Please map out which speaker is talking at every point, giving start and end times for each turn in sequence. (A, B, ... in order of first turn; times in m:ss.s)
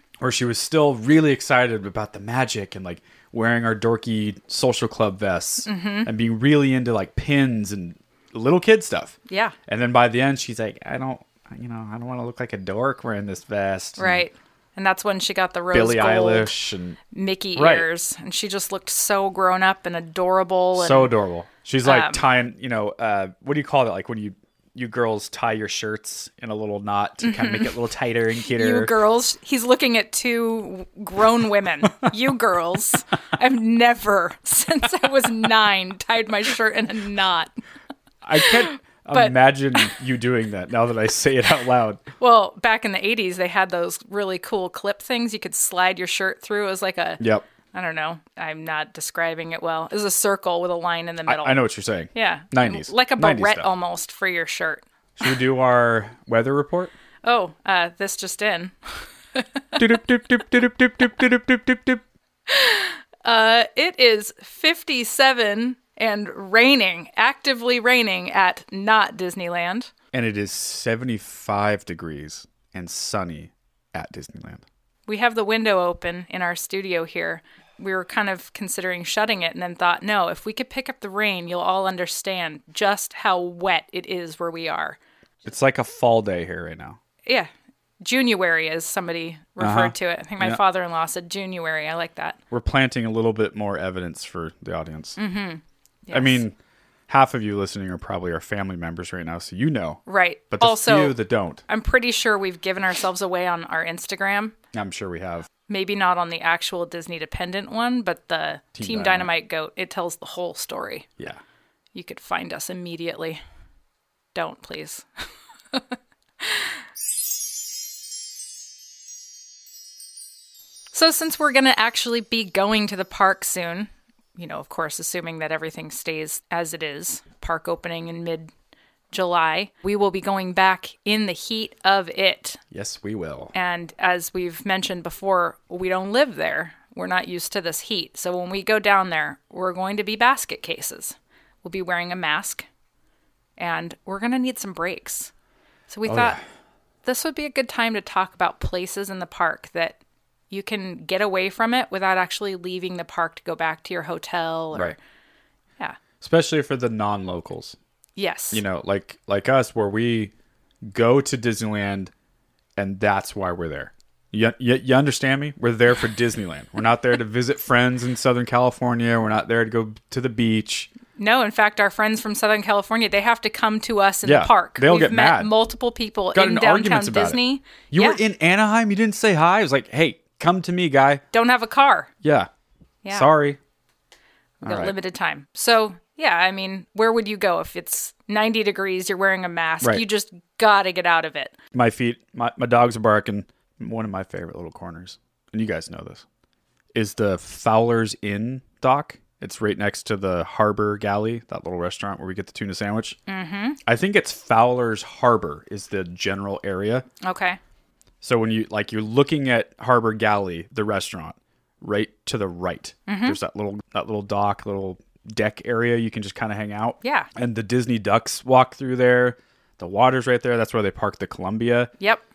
0:00.2-0:09.1 A
0:05.6-0:06.1 B
0:09.3-0:09.6 B
0:09.7-0:14.2 A
0:14.0-0:16.5 B
0:15.7-0:17.0 A
0:17.1-0:21.1 B
0:17.5-0:17.9 A
0:20.7-0:28.9 A
0:21.8-0:22.2 B
0:27.2-0:27.8 B
0:28.5-0:37.5 B
0:38.2-0:42.0 A
0:38.4-0:39.8 B
0:42.2-0:51.6 B
0:47.2-0:47.5 A
0:51.2-0:53.7 A
0:52.1-0:54.8 B
0:55.2-0:56.9 A
0:57.2-0:59.8 B
0:59.8-1:02.0 A
1:02.5-1:09.9 B
1:10.1-1:14.6 A
1:15.1-1:25.0 B
1:25.4-1:27.0 A
1:27.2-1:27.5 B
1:28.0-1:32.4 B
1:29.6-1:30.6 A
1:32.5-1:35.2 A
1:35.2-1:36.4 B
1:36.1-1:36.6 A
1:37.1-1:41.6 A
1:40.0-1:44.6 B
1:44.7-1:45.5 A
1:45.7-1:51.1 B
1:48.7-1:49.3 A
1:51.9-1:53.4 B
1:54.3-1:55.0 B
1:55.7-1:56.7 B
2:00.9-2:08.5 B
2:09.1-2:12.6 B
2:12.7-2:13.5 A
2:13.5-2:22.6 B
2:23.6-2:25.3 B
2:25.9-2:26.4 B
2:26.0-2:26.4 A
2:27.0-2:30.0 B
2:30.5-2:35.0 B
2:36.2-2:37.8 A
2:38.2-2:38.6 B
2:38.5-2:40.3 A
2:40.8-2:42.1 A
2:42.8-2:50.9 A
2:51.1-2:58.2 B
2:54.2-2:55.5 A
2:56.3-2:57.4 A
2:57.9-3:01.2 A
3:01.3-3:02.1 B
3:02.2-3:02.5 A
3:03.0-3:03.3 B
3:03.1-3:03.6 A
3:04.6-3:04.9 A
3:04.6-3:11.6 B
3:11.7-3:16.2 A
3:16.9-3:23.2 A
3:23.3-3:23.8 B
3:23.8-3:27.0 A
3:27.2-3:27.6 B
3:28.2-3:41.9 A
3:33.1-3:33.4 B
3:37.0-3:37.3 B